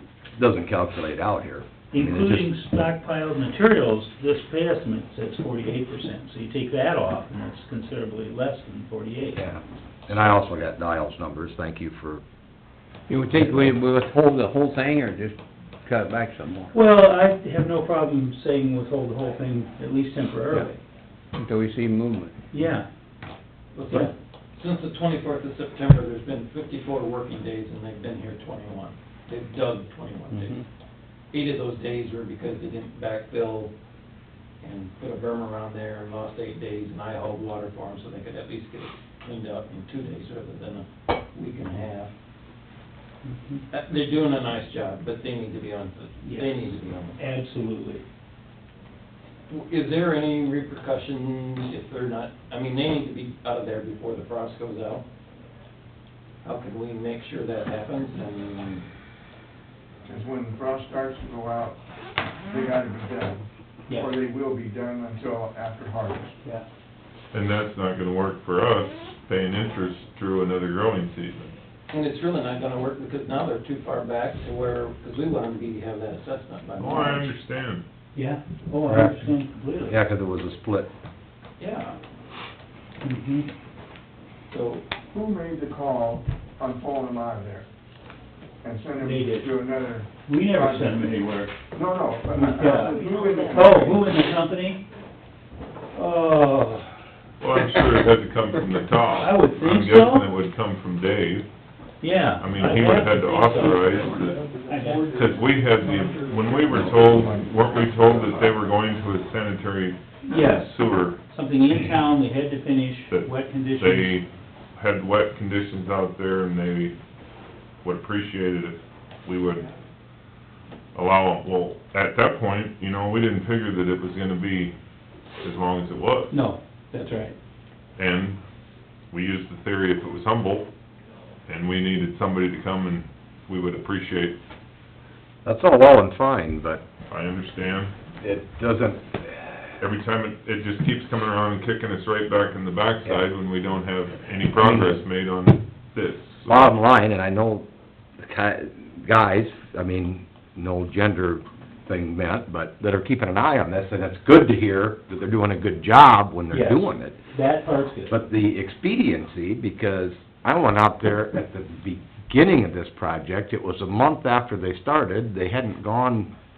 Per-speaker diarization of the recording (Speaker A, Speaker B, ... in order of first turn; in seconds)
Speaker A: 0.4-2.5, 9.4-12.2, 13.4-13.7, 78.9-79.3, 79.8-80.9, 135.4-136.8, 138.2-139.8, 144.6-145.0, 146.5-147.7, 148.2-157.3, 158.1-166.3
Speaker B: 1.9-9.5, 16.7-20.7, 22.5-22.9, 43.2-43.6, 46.2-48.0, 63.9-64.1, 78.2-80.0, 83.0-83.5, 89.0-89.5, 90.3-91.5, 92.3-94.8, 95.9-97.0, 99.2-100.3, 102.0-105.1, 105.7-106.4, 110.3-110.7, 111.3-114.2, 126.3-127.4, 156.5-158.2
Speaker C: 13.1-16.7, 21.4-22.3, 30.3-30.6
Speaker D: 23.8-30.5, 31.3-33.7, 34.6-42.1, 43.7-47.2, 49.5-55.0, 56.4-58.9, 71.9-77.4, 81.6-82.0, 84.5-84.8, 93.1-93.6, 103.6-105.1, 106.2-106.5
Speaker E: 60.1-61.8, 62.5-66.4, 85.1-87.7, 88.6-94.1, 106.7-108.5
Speaker F: 67.3-71.5, 76.8-77.8, 97.4-101.5, 102.4-104.4, 105.0-112.1, 113.1-117.0, 117.8-119.7, 121.0-124.7, 125.4-126.3, 128.0-128.4, 129.1-130.7, 131.5-134.4, 137.1-137.9, 139.8-146.8